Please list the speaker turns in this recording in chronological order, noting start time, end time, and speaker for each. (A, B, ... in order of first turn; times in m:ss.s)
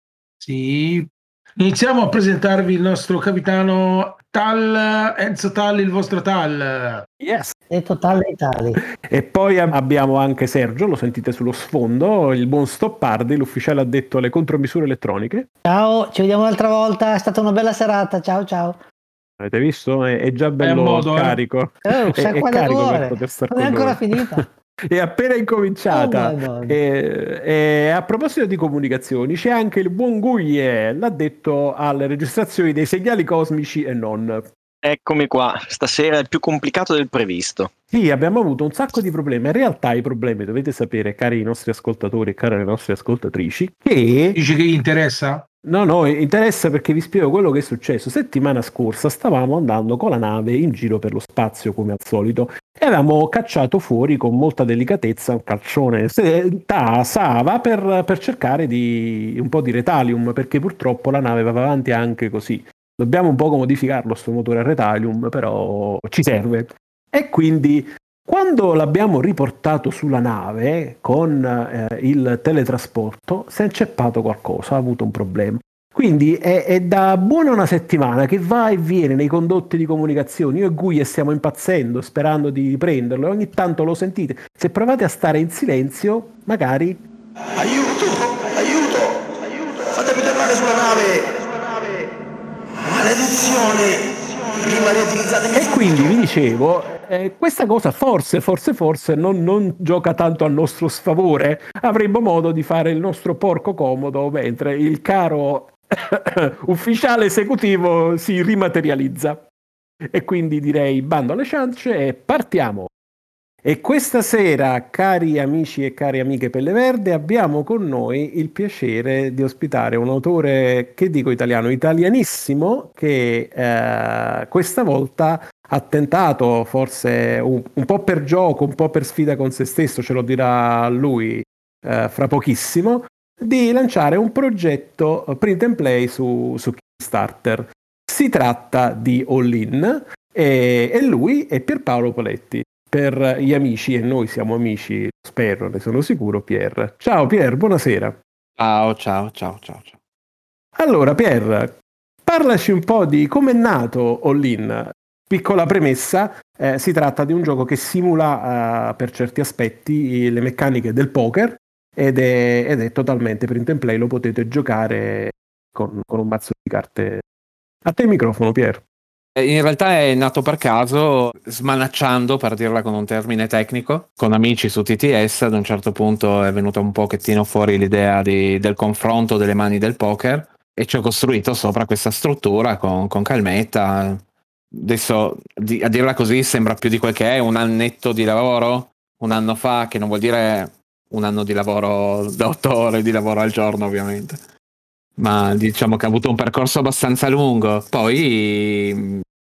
0:00.4-0:07.1 A
0:07.2-0:07.6 B
0:07.7-0:08.8 C
0:09.0-0:15.5 B
0:15.6-0:18.8 C
0:19.4-0:34.5 B
0:20.6-0:21.4 A
0:21.9-0:24.5 C
0:25.9-0:26.8 C
0:34.8-0:37.7 D
0:37.9-0:44.4 B
0:44.4-0:45.5 A
0:45.6-1:27.0 B
1:27.6-1:32.1 E
1:32.8-1:35.9 E
1:35.5-1:49.4 B
1:50.1-1:52.9 B
1:53.6-2:28.2 B
2:28.6-2:30.0 F
2:30.8-2:47.2 B
2:47.8-2:48.8 B
2:49.4-3:14.4 F
3:15.2-3:19.2 F